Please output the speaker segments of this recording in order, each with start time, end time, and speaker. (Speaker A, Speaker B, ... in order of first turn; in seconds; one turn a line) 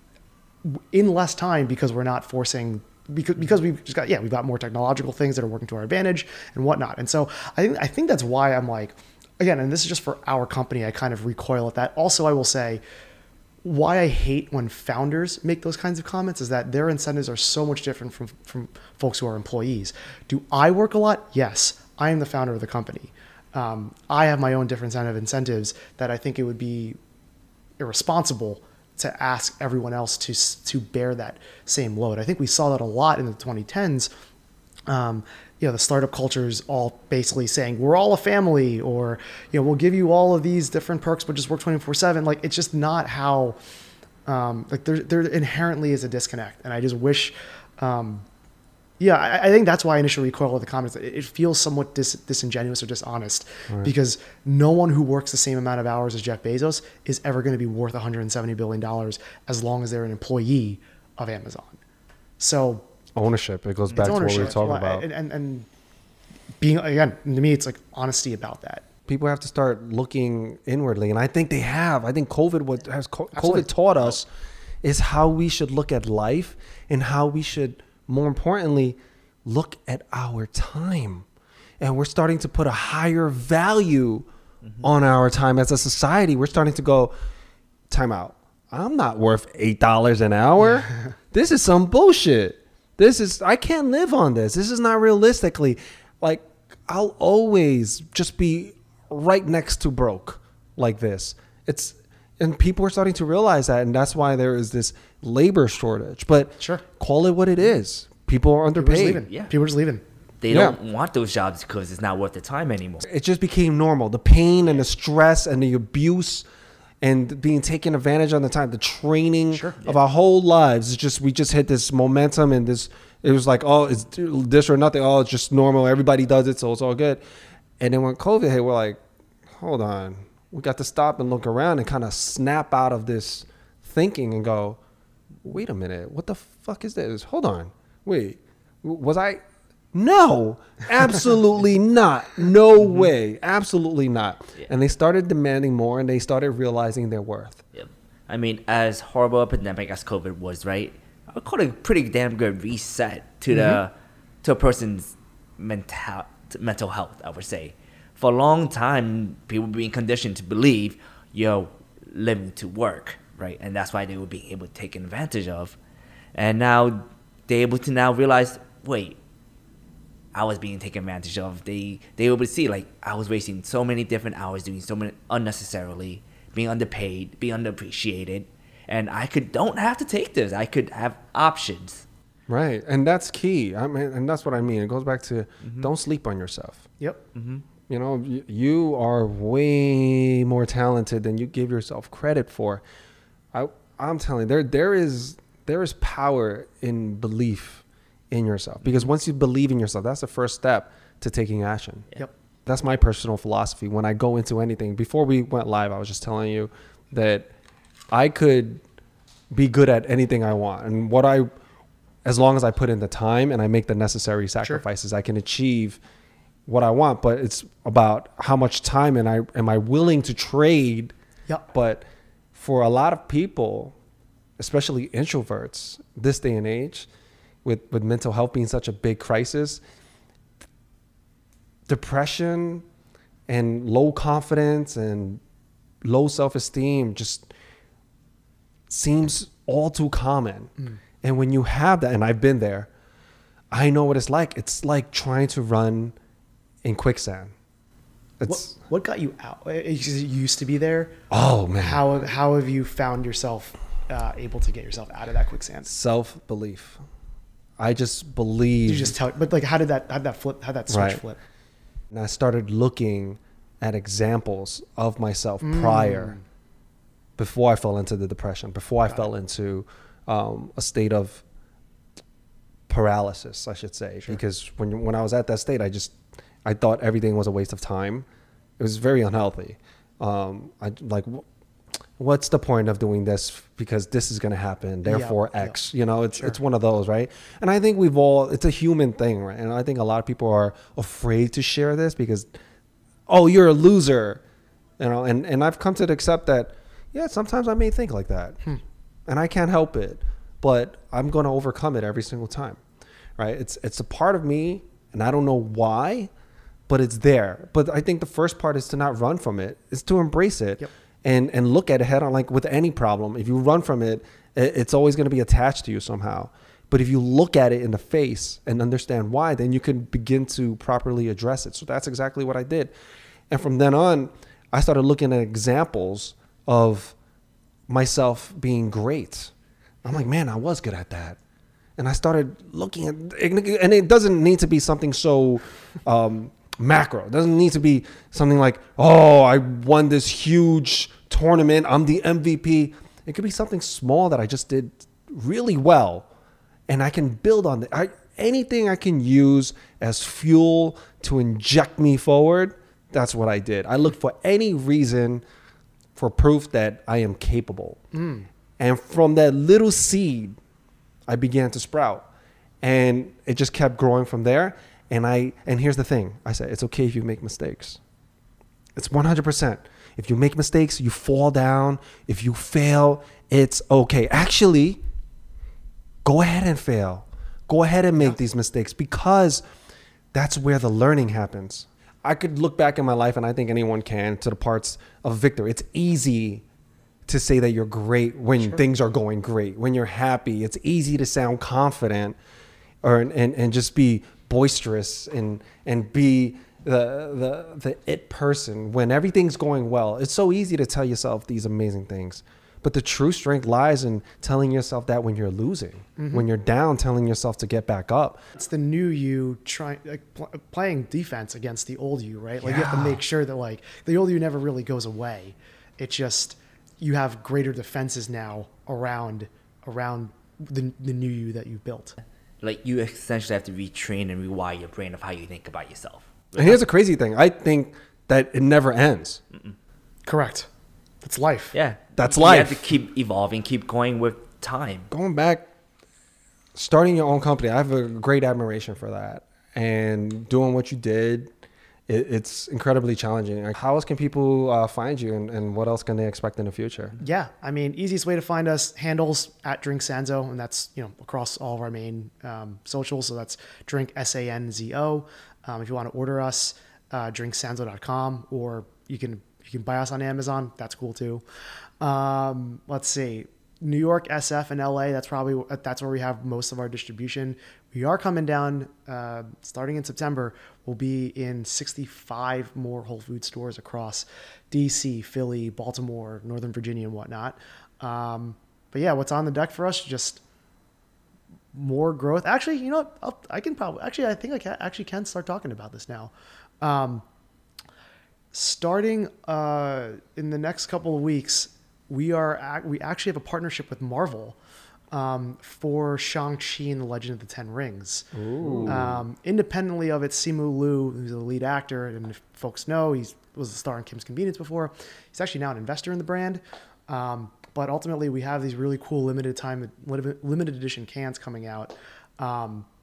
Speaker A: 0.6-12.8
Speaker A: 13.6-27.0
Speaker A: 27.8-34.1
Speaker A: 34.9-43.6
Speaker A: 44.2-48.2
Speaker A: 49.0-61.8
Speaker A: 62.4-62.9
Speaker B: 63.1-65.0
Speaker C: 63.9-64.5
Speaker A: 63.9-65.7
Speaker A: 66.6-68.8
Speaker B: 69.1-74.3
Speaker A: 73.3-74.2
Speaker B: 74.8-81.2
Speaker B: 81.8-84.3
Speaker B: 84.8-87.1
Speaker B: 87.9-109.2
Speaker A: 108.8-110.0
Speaker C: 110.4-113.0
Speaker B: 110.5-110.8
Speaker B: 113.0-116.4
Speaker B: 117.0-127.2
Speaker A: 119.5-119.8
Speaker B: 127.8-134.8
Speaker B: 135.4-139.4
Speaker B: 139.9-147.6
Speaker C: 147.7-153.9
Speaker A: 153.5-153.8
Speaker C: 154.4-165.8
Speaker C: 166.3-169.2
Speaker C: 170.3-182.0
Speaker B: 182.5-186.8
Speaker C: 187.3-187.6
Speaker B: 187.9-192.8
Speaker B: 193.5-202.1
Speaker B: 202.7-207.5
Speaker B: 208.1-208.8
Speaker B: 209.5-211.5
Speaker B: 212.2-216.0
Speaker B: 216.7-221.1
Speaker B: 221.7-223.9
Speaker B: 224.6-227.1
Speaker B: 227.6-229.8
Speaker B: 231.9-232.8
Speaker B: 233.5-235.4
Speaker B: 236.0-237.5
Speaker B: 238.9-242.9
Speaker B: 243.7-246.1
Speaker B: 246.8-247.5
Speaker B: 248.4-248.7
Speaker A: 248.4-251.2
Speaker B: 251.3-252.1
Speaker A: 251.8-255.9
Speaker B: 255.8-257.0
Speaker B: 257.8-259.1
Speaker A: 258.9-261.4
Speaker B: 260.9-261.2
Speaker B: 262.1-266.4
Speaker A: 265.6-266.4
Speaker B: 267.4-271.4
Speaker B: 272.9-278.2
Speaker B: 278.8-281.4
Speaker B: 282.2-292.5
Speaker A: 285.1-285.8
Speaker B: 293.3-294.4
Speaker B: 295.0-298.6
Speaker B: 299.3-302.8
Speaker B: 303.4-306.3
Speaker B: 306.9-322.9
Speaker B: 323.5-327.1
Speaker B: 327.9-329.5
Speaker B: 330.0-331.4
Speaker B: 332.0-346.3
Speaker B: 346.9-355.4
Speaker B: 356.1-358.0
Speaker A: 358.1-358.5
Speaker B: 358.8-360.6
Speaker B: 361.3-362.2
Speaker B: 362.8-368.0
Speaker B: 368.9-375.0
Speaker B: 376.2-379.6
Speaker B: 380.3-386.6
Speaker B: 387.2-392.4
Speaker B: 393.0-408.4
Speaker A: 406.2-406.4
Speaker A: 408.6-422.2
Speaker B: 412.6-413.2
Speaker C: 422.6-426.8
Speaker B: 426.5-429.4
Speaker A: 430.2-430.7
Speaker A: 431.2-431.7
Speaker C: 431.7-435.1
Speaker B: 432.2-432.8
Speaker B: 435.1-435.7
Speaker B: 436.7-441.5
Speaker B: 442.1-447.1
Speaker A: 447.2-461.4
Speaker A: 462.0-480.4
Speaker A: 481.7-487.2
Speaker A: 488.5-494.6
Speaker A: 495.1-498.3
Speaker B: 498.3-499.2
Speaker A: 498.8-512.9